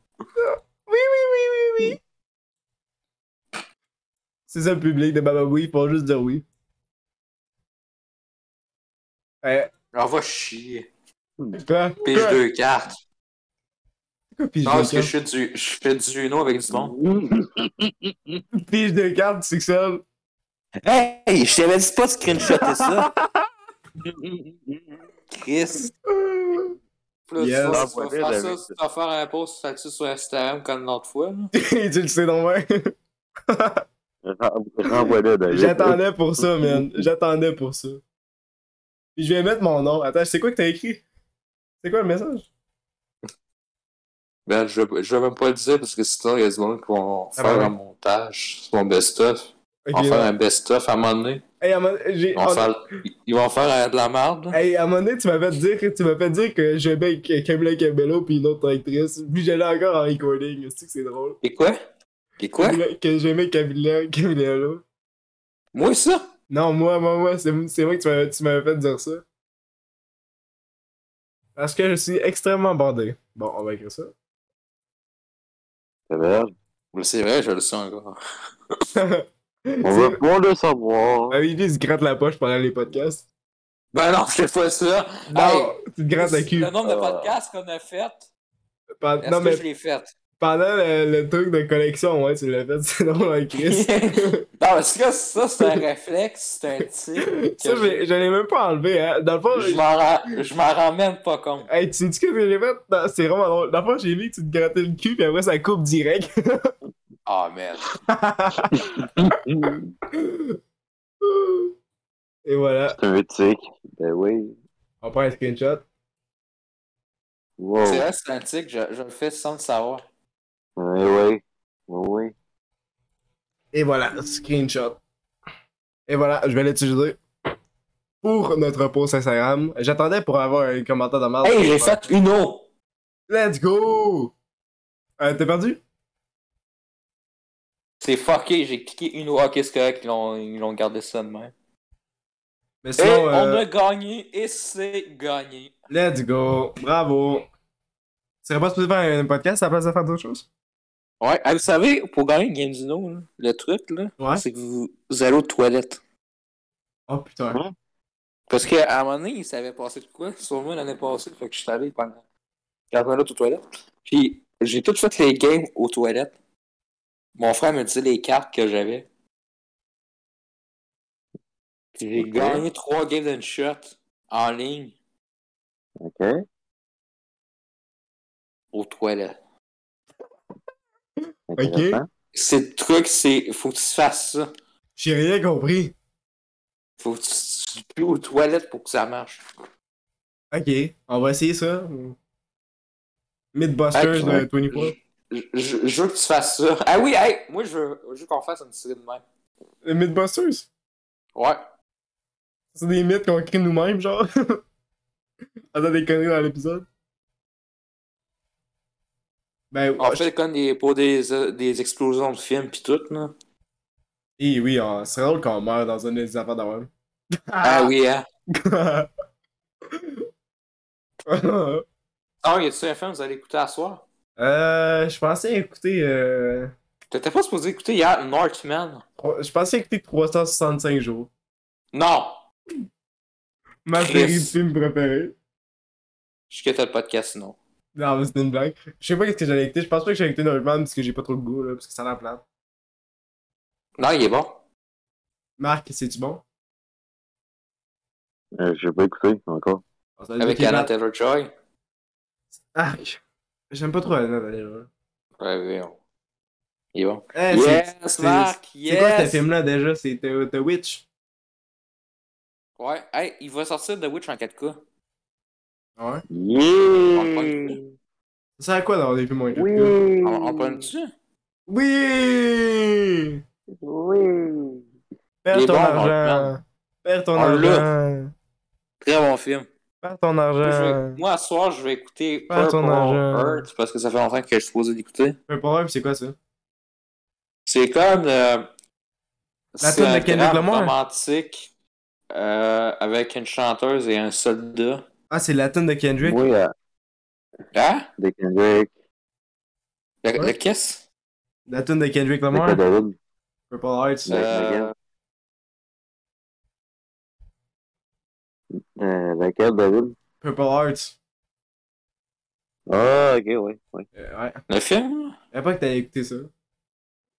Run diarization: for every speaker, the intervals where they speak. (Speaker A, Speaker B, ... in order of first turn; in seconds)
Speaker A: 0.4-2.0, 4.5-6.5, 9.4-9.7, 11.6-12.4, 14.3-15.1, 18.6-20.0, 22.4-23.5, 26.1-26.8, 27.4-27.9, 31.5-32.9, 33.5-33.8, 34.9-38.0, 39.2-41.0, 41.8-42.5, 47.4-47.7, 49.9-50.3, 51.6-52.7, 54.5-61.4, 62.6-64.8, 66.5-69.2, 71.6-74.1, 79.0-80.2, 81.3-83.2, 85.3-86.7, 89.0-89.6, 90.4-94.4, 97.3-99.8, 101.7-106.7, 108.1-109.0, 109.6-110.6, 111.2-111.7, 112.5-113.0, 115.0-115.8, 123.7-125.0, 126.1-127.2, 128.2-132.1, 133.3-134.3, 135.2-135.8, 142.8-143.7, 145.9-147.5, 148.4-150.5, 157.1-157.6, 181.6-182.0, 185.0-185.9, 190.5-192.2, 193.5-194.9, 199.8-200.7, 202.7-204.6, 205.7-206.9, 209.7-210.3, 214.4-217.9, 218.6-219.1, 219.9-220.2, 221.3-221.8, 224.4-226.7, 229.2-231.3, 233.8-235.3, 237.9-242.4, 245.6-246.4, 250.2-250.9, 252.8-253.2, 253.7-254.9, 257.3-261.1, 266.0-266.2, 268.6-269.9, 271.7-273.4, 275.4-278.3, 280.0-281.2, 282.5-283.7, 285.5-286.4, 289.8-290.9, 295.3-296.4, 301.7-302.8, 303.7-304.3, 310.4-311.2, 314.1-314.6, 315.5-316.5
Speaker B: 9.9-10.9, 12.0-13.0, 14.7-17.0, 20.8-23.1, 25.3-25.9, 27.3-31.5, 44.5-51.4, 52.4-54.6, 61.4-61.8, 62.4-62.8, 65.8-66.2, 76.9-78.2, 83.9-88.2, 89.2-90.1, 93.6-98.0, 99.5-101.7, 107.3-108.0, 117.8-120.0, 131.4-132.7, 138.0-141.5, 143.0-145.7, 151.2-156.0, 158.5-162.2, 162.9-166.3, 167.4-169.1, 172.0-174.9, 178.7-179.4, 182.3-184.5, 187.0-189.4, 193.9-199.2, 201.3-201.6, 210.0-213.3, 217.6-218.3, 222.4-224.0, 227.1-229.0, 231.9-232.4, 234.0-234.6, 236.5-237.6, 244.0-244.6, 250.4-251.5, 255.4-256.0, 256.9-259.4, 262.8-264.8, 267.1-267.8, 270.2-271.1, 275.5-276.5, 277.4-277.9, 279.0-279.7, 280.6-285.4, 287.7-288.7, 289.8-291.7, 292.3-295.1, 297.7-298.1, 300.2-301.1, 304.3-304.9, 314.7-315.4
Speaker C: 16.7-18.4, 24.0-25.0, 27.7-28.7, 34.2-37.1, 76.1-76.5, 79.8-81.4, 86.8-87.4, 108.7-109.9, 112.9-114.6, 117.6-118.1, 120.8-122.3, 172.1-172.7, 176.0-176.4, 181.5-182.1, 248.6-249.8, 266.3-267.8, 269.5-270.9, 273.8-274.8, 296.2-296.7, 298.2-298.9, 302.5-303.2, 304.3-304.9, 308.7-310.1, 312.9-314.1